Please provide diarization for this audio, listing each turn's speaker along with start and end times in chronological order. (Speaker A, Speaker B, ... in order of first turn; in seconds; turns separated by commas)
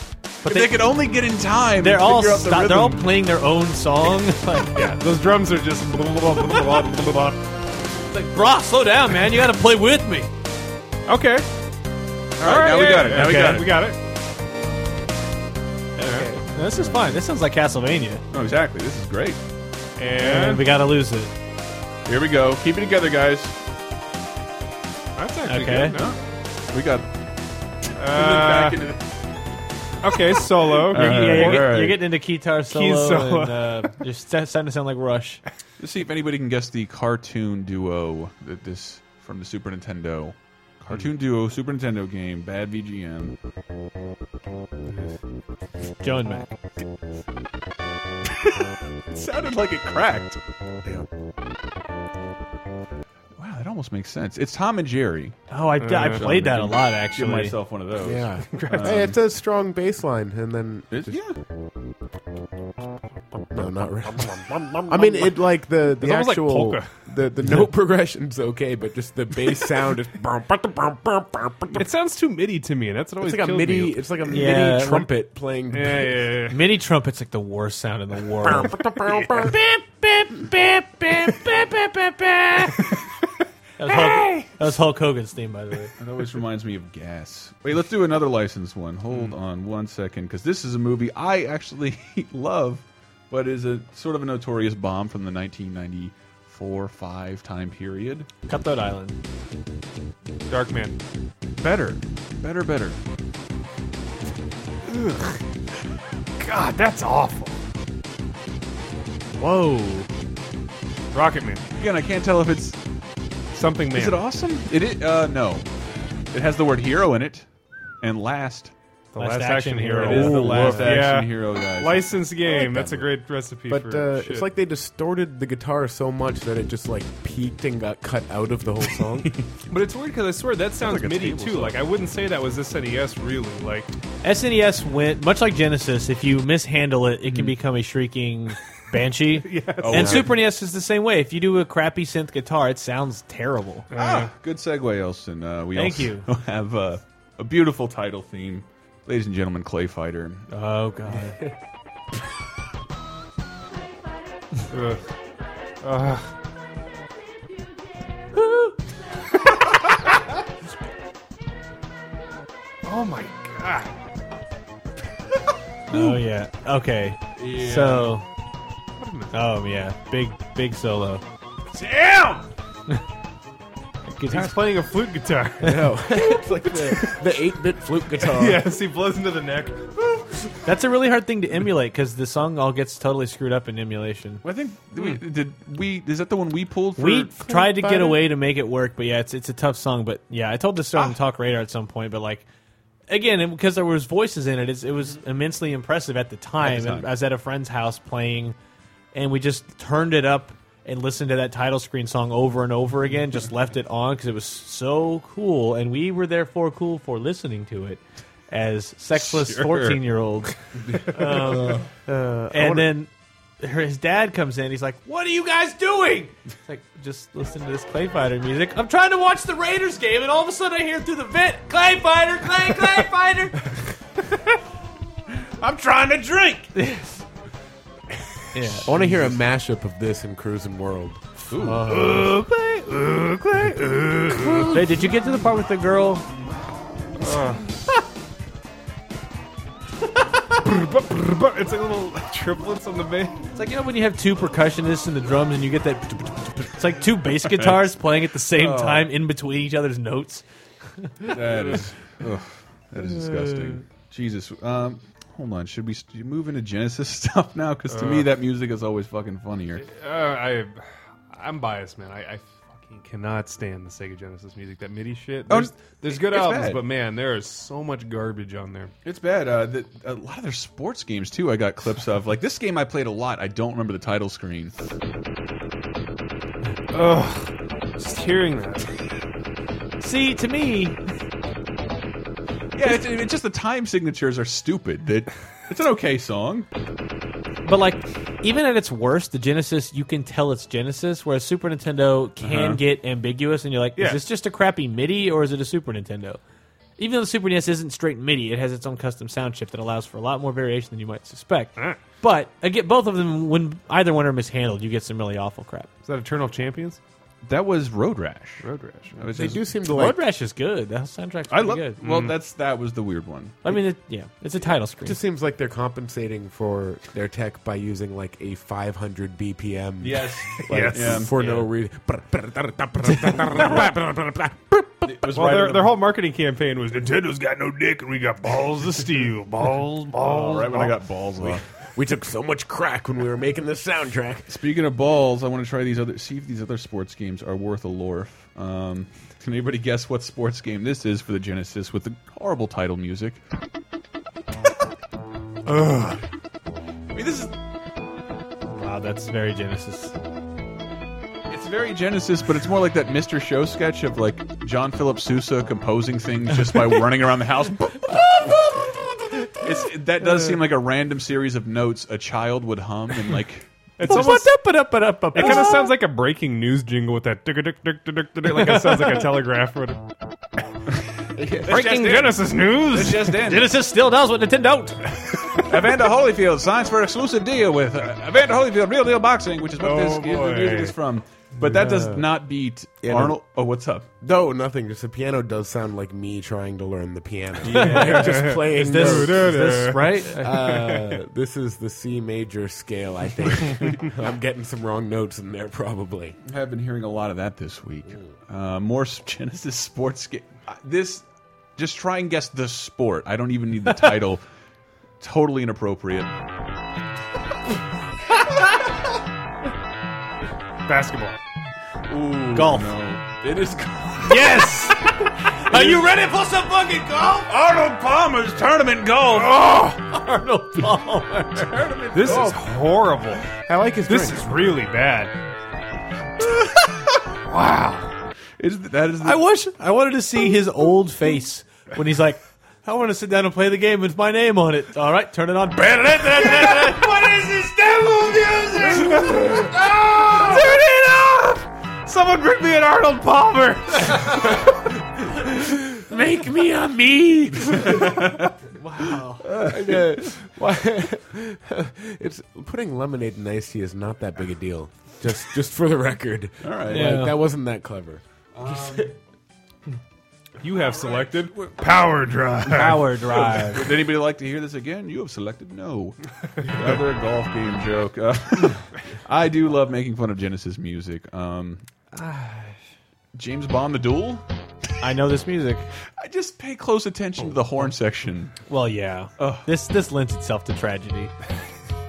Speaker A: 0.4-0.8, Speaker B: 0.4-3.0, Speaker A: 1.8-4.9, Speaker C: 4.7-7.4, Speaker A: 8.1-10.3, Speaker C: 11.1-11.5, Speaker B: 12.4-13.7, Speaker C: 12.4-14.0, Speaker A: 13.1-13.7, Speaker C: 16.0-16.3, Speaker A: 16.0-18.2, Speaker B: 16.7-17.2, Speaker B: 18.3-19.4, Speaker C: 20.0-20.7, Speaker A: 20.2-21.3, Speaker B: 22.1-23.5, Speaker C: 25.1-26.1, Speaker A: 25.4-26.0, Speaker B: 25.9-26.2, Speaker B: 26.7-27.1, Speaker C: 28.0-28.8, Speaker B: 28.1-29.0, Speaker C: 30.0-31.8, Speaker B: 30.7-32.0, Speaker A: 30.9-35.4, Speaker C: 32.7-33.9, Speaker B: 35.8-43.3, Speaker C: 44.9-45.1, Speaker A: 46.0-46.5, Speaker B: 48.3-50.4, Speaker B: 53.4-55.4, Speaker A: 55.5-57.6, Speaker C: 55.8-56.3, Speaker B: 56.1-59.1, Speaker D: 58.0-61.2, Speaker C: 58.5-59.0, Speaker B: 60.9-61.4, Speaker D: 63.5-71.8, Speaker C: 64.4-65.3, Speaker C: 65.9-66.9, Speaker C: 71.7-74.1, Speaker D: 73.2-76.3, Speaker A: 74.3-75.1, Speaker C: 75.7-76.6, Speaker A: 76.5-83.0, Speaker D: 78.4-79.5, Speaker A: 83.8-85.9, Speaker C: 83.8-84.5, Speaker B: 86.0-98.3, Speaker A: 98.5-99.2, Speaker C: 100.5-101.0, Speaker B: 101.6-103.0, Speaker C: 106.4-107.6, Speaker A: 109.3-110.1, Speaker C: 111.1-111.6, Speaker B: 111.8-112.8, Speaker C: 113.5-114.2, Speaker B: 113.9-115.7, Speaker B: 116.3-117.5, Speaker B: 118.0-118.7, Speaker C: 119.1-124.5, Speaker A: 119.2-121.1, Speaker B: 119.9-122.1, Speaker D: 122.4-129.3, Speaker C: 129.7-133.9, Speaker B: 130.8-131.8, Speaker A: 134.2-143.9, Speaker B: 137.2-137.5, Speaker C: 139.3-140.3, Speaker B: 139.8-140.3, Speaker C: 143.9-144.3, Speaker B: 143.9-150.5, Speaker A: 145.7-146.2, Speaker A: 150.5-151.4, Speaker C: 154.7-155.1, Speaker C: 155.8-156.3, Speaker A: 158.3-158.8, Speaker C: 162.8-163.9, Speaker A: 165.9-168.2, Speaker B: 165.9-166.2, Speaker B: 167.3-168.2, Speaker C: 169.0-169.4, Speaker A: 169.3-171.2, Speaker B: 171.7-172.4, Speaker A: 174.1-174.7, Speaker C: 174.3-177.2, Speaker D: 175.6-178.7, Speaker C: 178.1-180.2, Speaker A: 180.6-184.4, Speaker B: 184.4-187.4, Speaker A: 187.0-192.4, Speaker D: 187.5-188.2, Speaker A: 193.1-198.6, Speaker B: 196.6-197.1, Speaker A: 199.1-223.6, Speaker C: 209.5-209.9, Speaker B: 210.9-211.8, Speaker D: 212.1-212.9, Speaker B: 225.6-226.7, Speaker A: 226.7-227.2, Speaker A: 228.5-228.9, Speaker B: 228.8-229.4, Speaker D: 228.8-231.2, Speaker B: 231.5-231.8, Speaker A: 231.5-232.4, Speaker C: 231.9-234.8, Speaker A: 234.7-236.2, Speaker C: 237.2-237.7, Speaker C: 240.4-243.4, Speaker A: 243.5-250.4, Speaker B: 247.4-249.1, Speaker A: 251.0-251.4, Speaker B: 251.2-259.8, Speaker C: 257.9-258.3, Speaker C: 259.8-268.9, Speaker B: 265.5-266.8, Speaker B: 269.0-274.7, Speaker C: 276.9-278.9, Speaker A: 280.0-281.0, Speaker B: 282.7-286.7, Speaker A: 287.6-296.4, Speaker B: 292.4-292.8, Speaker C: 293.9-294.2, Speaker A: 297.0-305.9, Speaker C: 301.8-302.0, Speaker C: 306.0-307.0, Speaker B: 307.4-309.6, Speaker C: 308.6-309.2, Speaker D: 309.3-310.2, Speaker A: 309.9-312.0, Speaker B: 311.5-313.8, Speaker C: 312.0-312.3, Speaker A: 313.6-315.2, Speaker D: 315.0-325.0, Speaker B: 320.0-321.4, Speaker C: 320.7-321.4, Speaker B: 325.0-326.0, Speaker C: 325.3-331.0, Speaker B: 330.2-331.6, Speaker D: 331.9-334.5, Speaker B: 334.5-343.4, Speaker C: 345.7-346.1, Speaker B: 347.1-347.5, Speaker A: 348.7-350.1, Speaker B: 351.5-358.6, Speaker B: 359.6-363.7, Speaker C: 364.0-364.6, Speaker A: 364.0-365.9, Speaker C: 365.3-370.0, Speaker A: 368.5-369.3, Speaker D: 371.4-371.8, Speaker C: 371.6-373.4, Speaker B: 371.6-373.8, Speaker A: 373.4-375.4, Speaker B: 375.6-384.1, Speaker C: 379.8-380.9, Speaker D: 381.6-382.2, Speaker D: 383.0-383.4, Speaker D: 384.2-396.4, Speaker B: 387.6-388.3, Speaker A: 387.7-390.6, Speaker C: 387.7-391.2, Speaker B: 396.4-401.2, Speaker B: 401.8-404.4, Speaker B: 405.2-406.3, Speaker C: 410.9-411.4, Speaker B: 412.1-414.7, Speaker A: 412.5-412.9, Speaker A: 414.2-417.5, Speaker B: 415.6-416.1, Speaker B: 417.5-419.6, Speaker C: 419.3-420.0, Speaker A: 419.8-421.8, Speaker B: 421.6-422.6, Speaker C: 422.1-423.5, Speaker D: 422.2-422.6, Speaker D: 423.5-424.5, Speaker C: 424.0-425.3, Speaker B: 426.4-427.2, Speaker C: 427.4-428.1, Speaker B: 428.6-429.5, Speaker A: 429.2-439.2, Speaker C: 438.9-444.5, Speaker D: 444.6-448.2, Speaker B: 447.8-448.5, Speaker A: 448.7-449.5, Speaker B: 449.4-450.2, Speaker D: 449.6-459.1, Speaker B: 456.6-457.1, Speaker A: 456.9-457.3, Speaker B: 458.5-459.1, Speaker C: 460.6-463.2, Speaker B: 460.7-461.8, Speaker A: 462.6-463.9, Speaker B: 463.3-471.8, Speaker C: 472.1-472.7, Speaker B: 473.3-474.4, Speaker A: 475.0-475.9, Speaker B: 476.2-478.6, Speaker A: 478.7-481.3, Speaker B: 479.4-479.7